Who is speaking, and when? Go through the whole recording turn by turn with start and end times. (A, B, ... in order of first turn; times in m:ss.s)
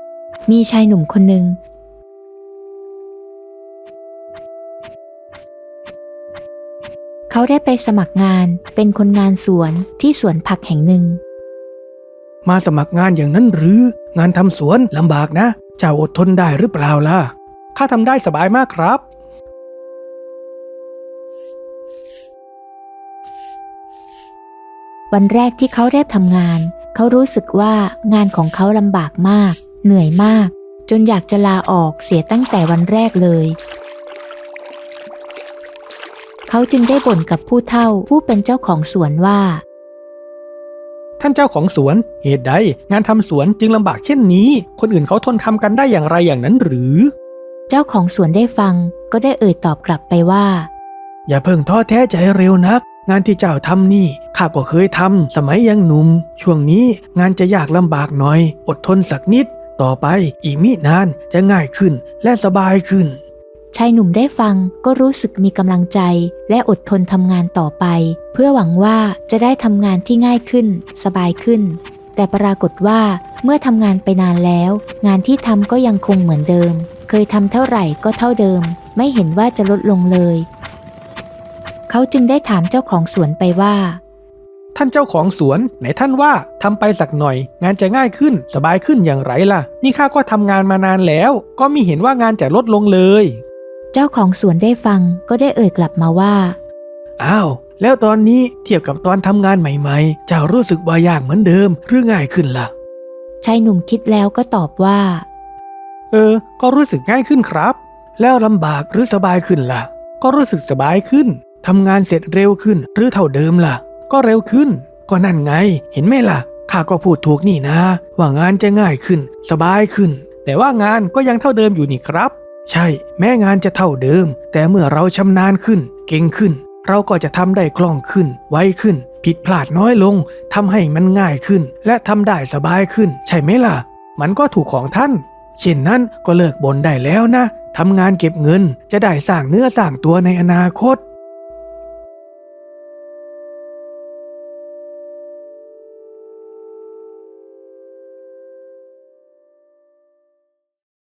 0:00.5-0:01.6 A
0:07.3-0:11.2 A
0:12.4-0:19.0 B
0:25.1-0:33.6 A
0:36.5-0:39.6 A
0:41.2-0:47.1 B
0:47.7-0:50.7 A
0:51.3-1:03.2 B
1:03.7-1:20.5 A
1:21.9-1:24.0 A
1:24.7-1:33.4 B
1:33.9-1:36.6 A
1:37.2-1:42.7 B
1:43.4-1:45.3 A
1:46.1-2:21.0 B